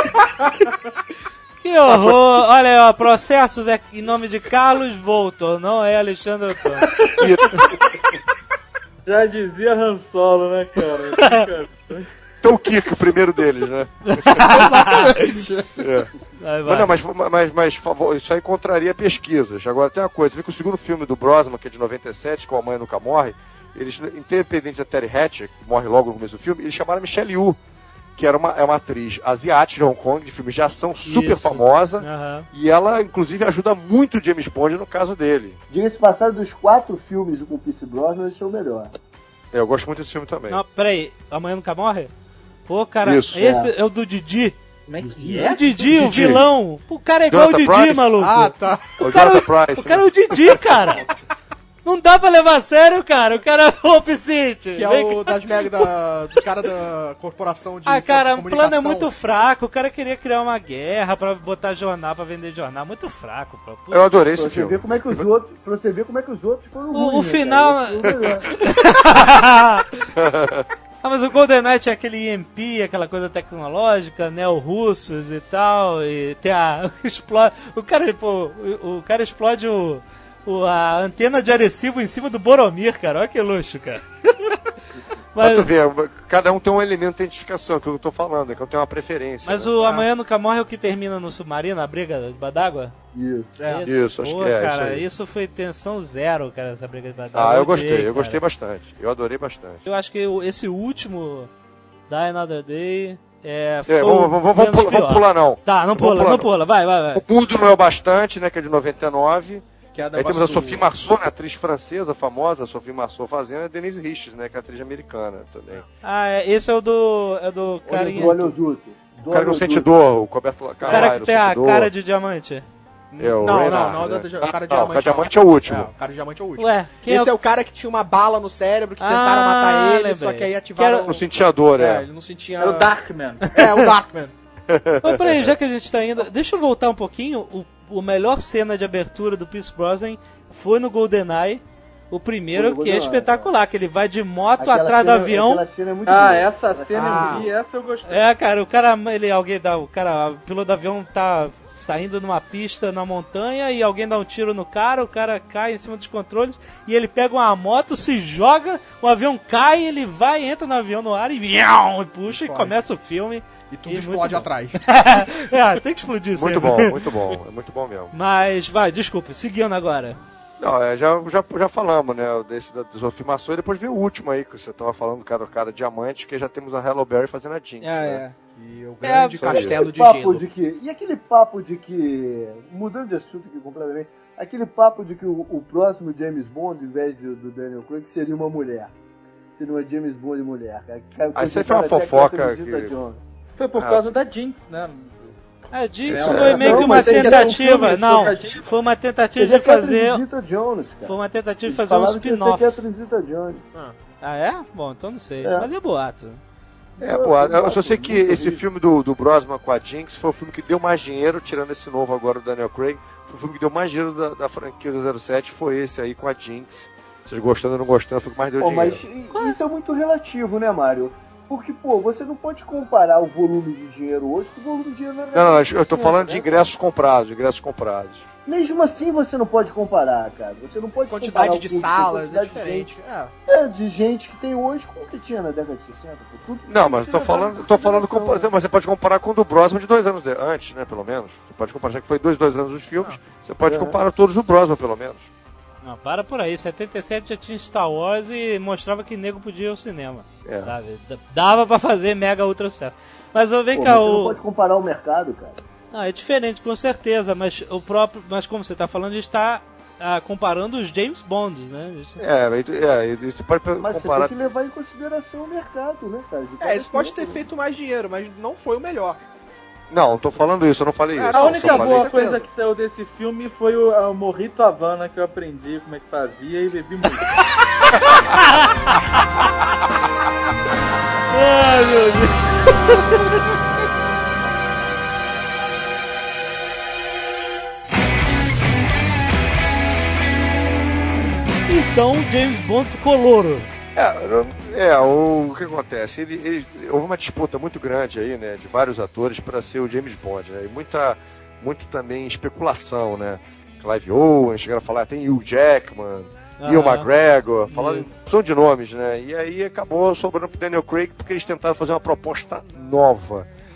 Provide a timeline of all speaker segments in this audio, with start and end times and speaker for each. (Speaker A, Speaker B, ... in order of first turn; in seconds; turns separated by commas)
Speaker A: 0.4-0.7, Speaker B: 1.6-6.9, Speaker C: 1.9-2.2, Speaker C: 7.2-7.7, Speaker A: 9.0-12.1, Speaker B: 11.2-11.4, Speaker C: 12.4-14.5, Speaker B: 14.1-15.1, Speaker D: 14.3-15.9, Speaker C: 15.8-16.1, Speaker B: 16.4-16.9, Speaker C: 16.7-27.6, Speaker C: 28.2-35.6, Speaker B: 31.0-32.5, Speaker E: 35.7-38.9, Speaker C: 39.5-40.6, Speaker B: 40.5-42.1, Speaker B: 42.7-44.6, Speaker C: 43.0-43.4, Speaker E: 43.4-43.7, Speaker A: 44.9-45.8, Speaker B: 45.1-51.1, Speaker C: 45.9-46.4, Speaker C: 47.3-48.2, Speaker D: 48.2-49.0, Speaker C: 49.0-50.6, Speaker B: 51.8-55.9, Speaker D: 54.7-59.1, Speaker B: 57.9-64.1, Speaker C: 63.9-65.2, Speaker E: 64.3-68.4, Speaker B: 66.9-69.9, Speaker C: 68.0-68.4, Speaker C: 70.1-70.7, Speaker B: 71.0-84.5, Speaker B: 85.3-85.7, Speaker C: 85.4-89.7, Speaker B: 89.4-93.0, Speaker E: 93.1-93.5, Speaker D: 93.6-93.9, Speaker B: 93.6-98.4, Speaker C: 93.8-95.0, Speaker C: 97.3-99.8, Speaker B: 99.8-101.5, Speaker B: 102.1-107.2, Speaker C: 103.9-106.5, Speaker C: 107.1-109.6, Speaker D: 109.9-110.8, Speaker C: 110.2-115.8, Speaker B: 116.0-118.6, Speaker E: 117.9-119.9, Speaker C: 119.3-121.9, Speaker D: 120.8-121.1, Speaker B: 120.8-122.6, Speaker D: 123.1-131.2, Speaker C: 123.2-125.9, Speaker B: 126.6-127.3, Speaker B: 129.0-131.0, Speaker C: 130.8-132.1, Speaker D: 131.7-132.9, Speaker A: 132.6-133.5, Speaker D: 133.5-134.3, Speaker C: 134.7-135.5, Speaker B: 135.0-145.6, Speaker E: 142.5-143.5, Speaker E: 144.6-147.5, Speaker A: 146.0-148.3, Speaker D: 147.0-147.4, Speaker B: 148.1-166.9, Speaker D: 162.3-162.7, Speaker D: 163.7-164.8, Speaker C: 166.3-168.1, Speaker B: 168.1-170.2, Speaker C: 170.6-178.2, Speaker B: 177.8-178.3, Speaker D: 178.5-180.4, Speaker B: 179.0-179.4, Speaker C: 179.4-179.8, Speaker E: 179.5-188.9, Speaker E: 189.5-193.2, Speaker C: 191.3-192.9, Speaker A: 193.6-195.3, Speaker C: 193.7-194.2, Speaker B: 195.7-200.2, Speaker C: 196.1-196.6, Speaker A: 196.1-198.7, Speaker E: 196.2-197.6, Speaker E: 199.3-203.6, Speaker B: 201.0-202.8, Speaker B: 204.2-206.4, Speaker E: 205.4-205.7, Speaker C: 207.0-219.0, Speaker E: 207.0-208.6, Speaker E: 218.6-226.6, Speaker C: 225.3-228.3, Speaker E: 228.4-232.9, Speaker D: 231.1-233.3, Speaker E: 233.5-238.5, Speaker C: 236.7-245.3, Speaker E: 243.6-244.0, Speaker B: 245.8-254.4, Speaker C: 250.4-250.7, Speaker E: 253.7-255.6, Speaker B: 255.9-262.2, Speaker C: 262.2-264.3, Speaker E: 263.8-267.4, Speaker D: 266.6-269.2, Speaker C: 269.9-272.2, Speaker D: 271.1-272.4, Speaker A: 271.3-277.4, Speaker B: 278.3-278.7, Speaker B: 281.3-283.2, Speaker B: 291.7-293.7, Speaker C: 293.9-313.5, Speaker B: 306.6-307.1, Speaker B: 307.7-308.1